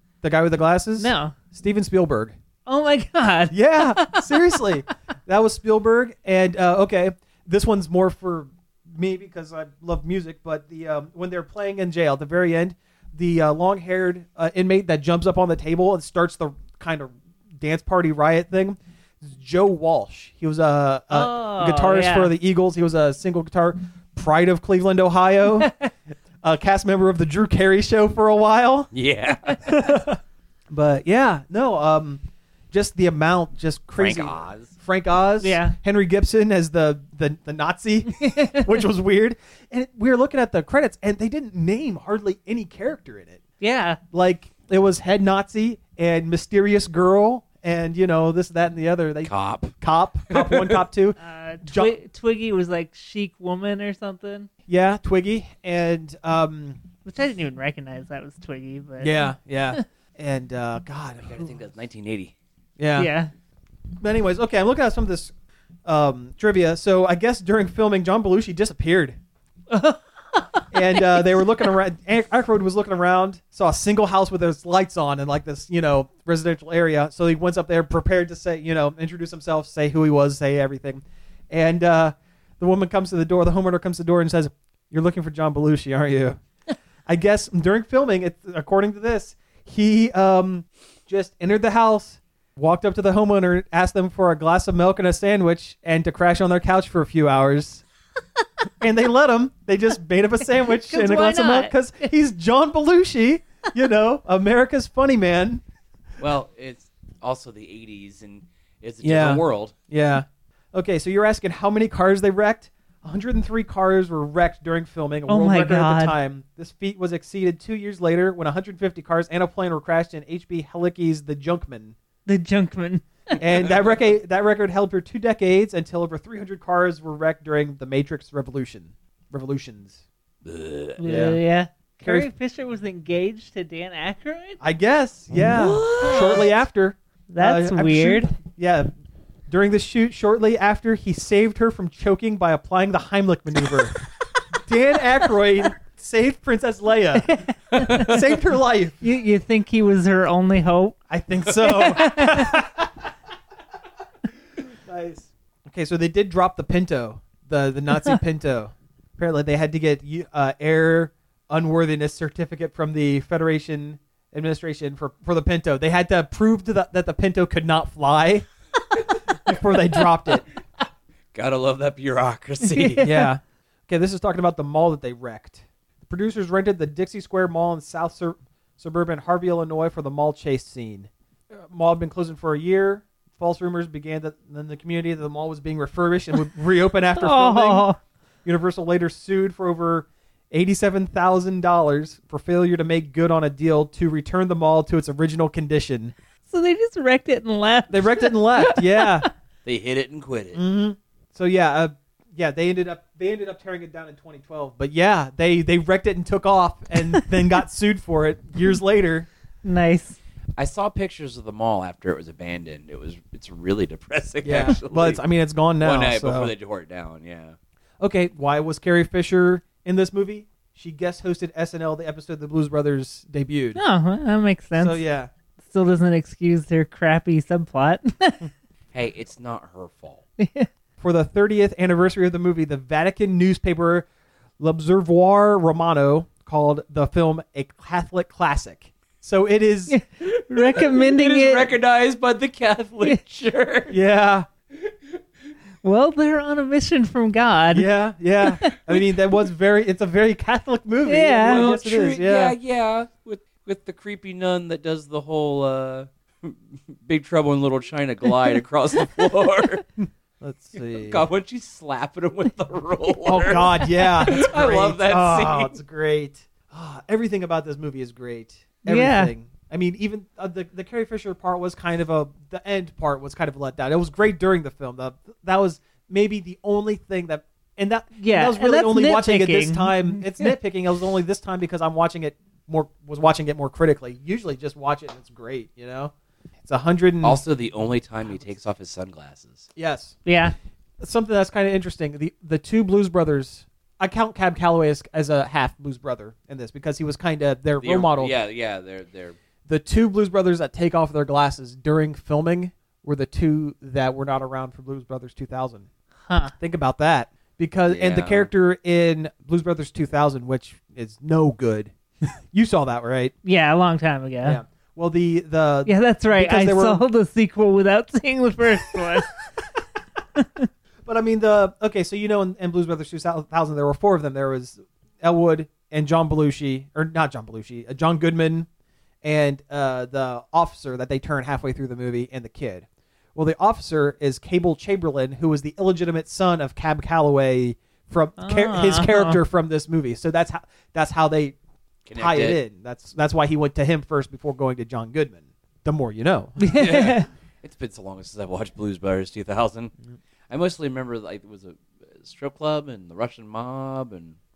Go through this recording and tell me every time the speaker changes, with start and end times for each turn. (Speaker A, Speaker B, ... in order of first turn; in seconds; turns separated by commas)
Speaker A: 0.2-2.4, Speaker B: 1.0-1.4, Speaker B: 2.6-4.6, Speaker A: 3.5-25.7, Speaker B: 21.1-22.3, Speaker B: 25.6-25.9, Speaker A: 26.4-28.9, Speaker C: 28.9-29.6, Speaker A: 29.6-30.2, Speaker A: 30.7-43.4, Speaker C: 34.0-34.7, Speaker B: 35.4-35.8, Speaker B: 38.1-38.7, Speaker B: 43.6-44.0, Speaker A: 44.1-51.9, Speaker C: 49.2-49.7, Speaker C: 50.3-50.8, Speaker B: 51.2-54.5, Speaker A: 54.7-56.8, Speaker B: 57.0-59.8, Speaker A: 59.0-61.6, Speaker C: 61.2-62.3, Speaker A: 62.8-63.1, Speaker B: 63.0-63.3, Speaker A: 64.0-65.3, Speaker A: 65.8-69.2, Speaker B: 69.7-71.2, Speaker A: 70.7-86.4, Speaker A: 87.0-97.8, Speaker A: 98.8-105.6, Speaker B: 100.7-102.1, Speaker C: 106.2-109.7, Speaker A: 109.0-122.0, Speaker B: 115.3-116.1, Speaker B: 122.2-123.3, Speaker A: 123.4-130.0, Speaker C: 130.4-131.0, Speaker B: 131.0-134.6, Speaker A: 131.0-131.4, Speaker A: 132.0-132.3, Speaker A: 134.6-138.9, Speaker C: 135.4-136.5, Speaker B: 136.0-136.4, Speaker B: 137.3-138.3, Speaker A: 139.5-144.0, Speaker A: 144.5-149.0, Speaker B: 147.2-148.2, Speaker B: 149.0-151.0, Speaker A: 151.1-153.1, Speaker B: 151.5-152.6, Speaker A: 154.6-168.5, Speaker A: 169.4-170.4, Speaker C: 171.3-173.1, Speaker B: 172.6-173.2, Speaker A: 173.0-187.9, Speaker B: 187.2-188.0, Speaker A: 188.4-196.1, Speaker B: 196.5-199.3, Speaker A: 197.9-199.3, Speaker C: 199.6-200.6, Speaker A: 200.5-209.3, Speaker B: 209.6-210.2, Speaker C: 210.6-215.2, Speaker A: 214.4-216.5, Speaker C: 215.8-217.6, Speaker A: 218.0-223.8, Speaker B: 223.8-225.0, Speaker A: 224.8-225.3, Speaker B: 225.6-228.5, Speaker C: 228.9-230.2, Speaker B: 230.4-230.7, Speaker A: 231.0-234.1, Speaker A: 234.6-240.0, Speaker B: 239.9-241.7, Speaker C: 240.2-244.0, Speaker A: 243.9-244.5, Speaker B: 245.8-247.9, Speaker A: 247.7-252.6, Speaker B: 251.1-251.7, Speaker C: 251.5-259.8, Speaker A: 260.0-261.2, Speaker C: 260.7-265.8, Speaker A: 263.2-286.1, Speaker B: 268.9-269.3, Speaker B: 278.2-280.5, Speaker A: 286.6-287.4, Speaker C: 287.2-289.7, Speaker A: 289.8-290.2, Speaker B: 290.2-290.5, Speaker A: 291.0-298.3, Speaker C: 297.8-299.4, Speaker A: 299.6-305.9, Speaker B: 306.3-306.5, Speaker A: 306.6-311.9, Speaker C: 307.9-308.5, Speaker A: 312.5-313.3, Speaker B: 313.4-314.6, Speaker A: 314.4-317.0, Speaker B: 315.9-319.3, Speaker B: 320.4-320.7, Speaker A: 321.0-328.7, Speaker A: 329.2-341.6, Speaker B: 338.4-339.4, Speaker C: 342.1-342.6, Speaker A: 342.1-346.8, Speaker B: 346.6-347.3, Speaker C: 346.7-349.9, Speaker C: 350.5-354.4